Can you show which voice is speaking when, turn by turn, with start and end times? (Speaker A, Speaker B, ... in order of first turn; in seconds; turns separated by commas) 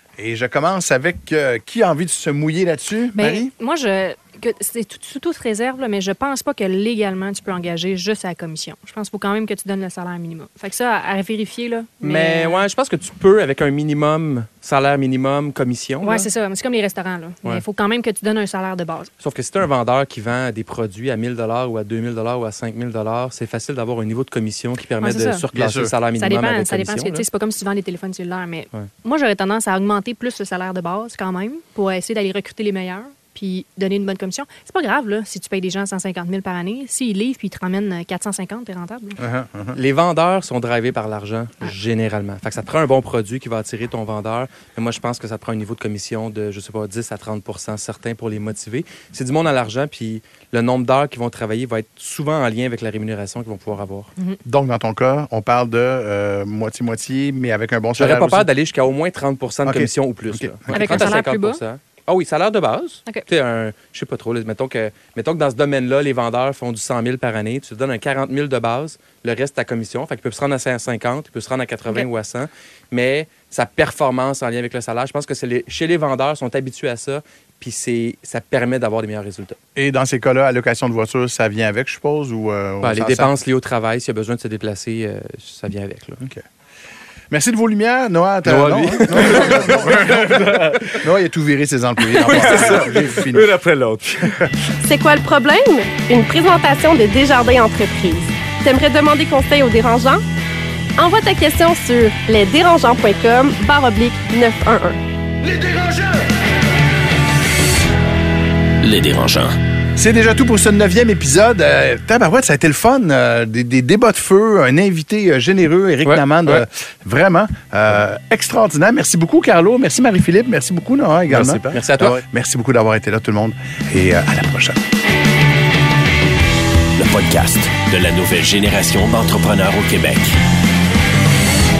Speaker A: 0.2-3.5, Speaker B: 3.1-12.6, Speaker C: 12.0-16.3, Speaker B: 16.0-19.1, Speaker C: 19.2-27.2, Speaker B: 25.0-25.4, Speaker A: 25.5-25.9, Speaker B: 26.2-39.2, Speaker A: 39.2-39.8, Speaker C: 39.7-54.1, Speaker A: 54.5-58.5, Speaker C: 58.0-79.6, Speaker A: 59.6-61.0, Speaker B: 60.7-61.6, Speaker A: 79.8-83.3, Speaker C: 82.8-86.2, Speaker A: 87.3-93.5, Speaker C: 88.4-89.9, Speaker D: 89.1-90.8, Speaker D: 92.2-94.5, Speaker A: 94.2-94.5, Speaker E: 94.8-100.2, Speaker E: 101.0-105.0, Speaker F: 108.8-109.5, Speaker A: 110.0-124.8, Speaker C: 116.0-116.6, Speaker C: 121.3-122.2, Speaker F: 127.0-130.4